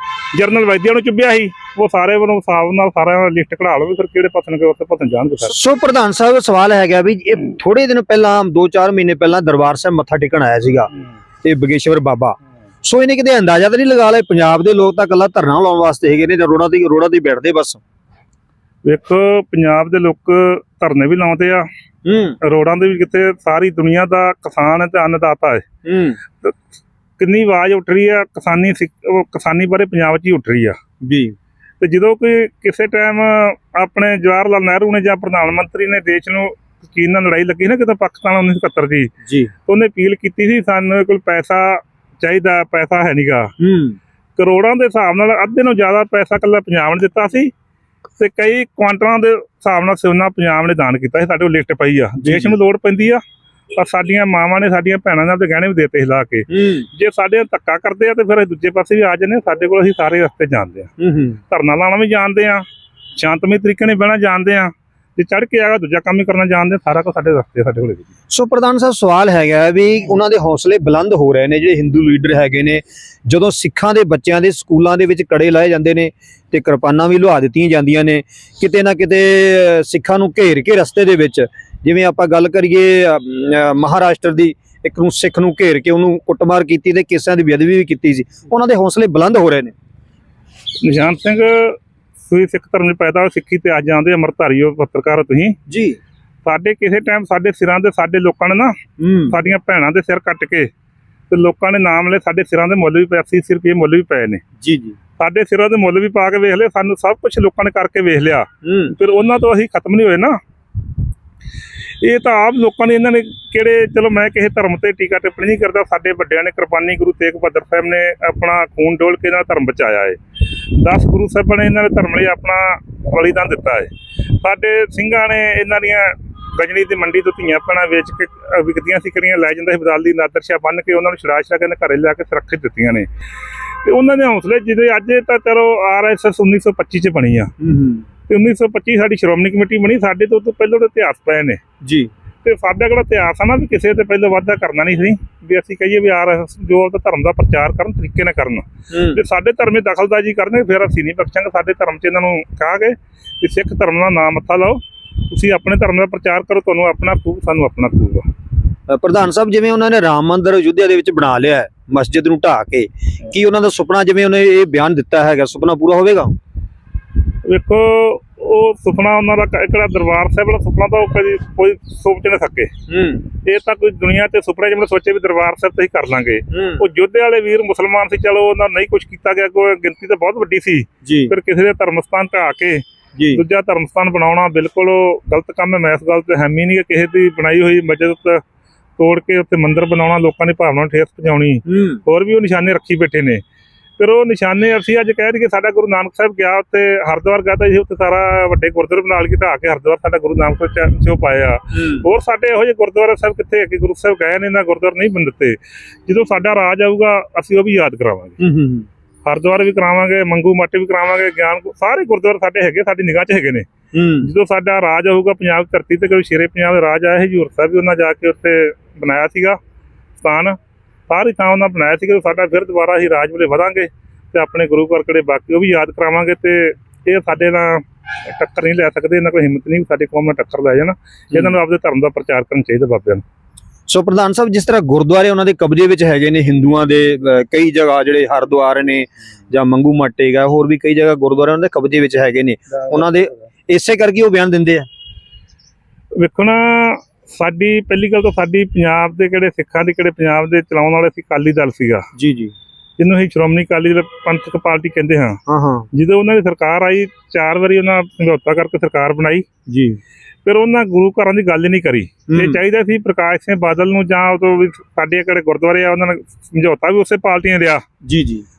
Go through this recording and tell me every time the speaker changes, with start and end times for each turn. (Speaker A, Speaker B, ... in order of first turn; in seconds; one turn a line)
Speaker A: 0.3-5.5
Speaker B: 5.5-10.9
Speaker B: 11.4-17.8
Speaker A: 18.8-21.6
Speaker B: 22.0-22.4
Speaker A: 22.4-25.6
Speaker B: 25.8-26.2
Speaker A: 27.2-30.8
Speaker B: 31.0-31.3
Speaker A: 31.8-39.1
Speaker B: 39.2-39.5
Speaker A: 39.6-43.5
Speaker B: 43.6-44.0
Speaker A: 44.4-47.5
Speaker A: 48.2-53.2
Speaker B: 52.2-52.5
Speaker A: 53.8-60.9
Speaker B: 56.5-56.9
Speaker B: 61.0-61.4
Speaker A: 61.5-62.6
Speaker A: 63.2-68.0
Speaker B: 68.3-89.7
Speaker A: 90.8-95.6
Speaker B: 95.7-96.0
Speaker A: 96.4-98.7
Speaker B: 99.0-99.4
Speaker A: 99.3-100.7
Speaker A: 101.3-104.4
Speaker B: 104.6-105.0
Speaker A: 105.2-110.4
Speaker B: 108.6-108.9
Speaker A: 112.0-120.2
Speaker A: 120.7-133.1
Speaker A: 133.8-137.5
Speaker B: 137.6-138.1
Speaker A: 138.3-141.6
Speaker B: 141.8-142.1
Speaker A: 142.4-158.2
Speaker B: 148.9-149.2
Speaker B: 158.9-166.4
Speaker A: 167.4-172.7
Speaker B: 172.9-173.2
Speaker A: 173.4-188.4
Speaker B: 176.5-176.8
Speaker B: 181.0-181.3
Speaker B: 183.2-183.4
Speaker A: 189.0-193.4
Speaker B: 191.7-192.0
Speaker A: 194.0-208.4
Speaker B: 201.7-202.1
Speaker B: 208.4-208.9
Speaker A: 209.2-213.7
Speaker B: 213.9-214.3
Speaker A: 214.2-219.6
Speaker A: 220.2-220.6
Speaker A: 221.1-233.2
Speaker B: 233.9-244.9
Speaker A: 246.2-252.1
Speaker B: 252.1-252.5
Speaker A: 253.0-255.4
Speaker B: 255.5-255.9
Speaker A: 255.9-259.5
Speaker B: 259.7-260.0
Speaker A: 260.4-267.8
Speaker B: 262.3-262.6
Speaker B: 268.0-268.4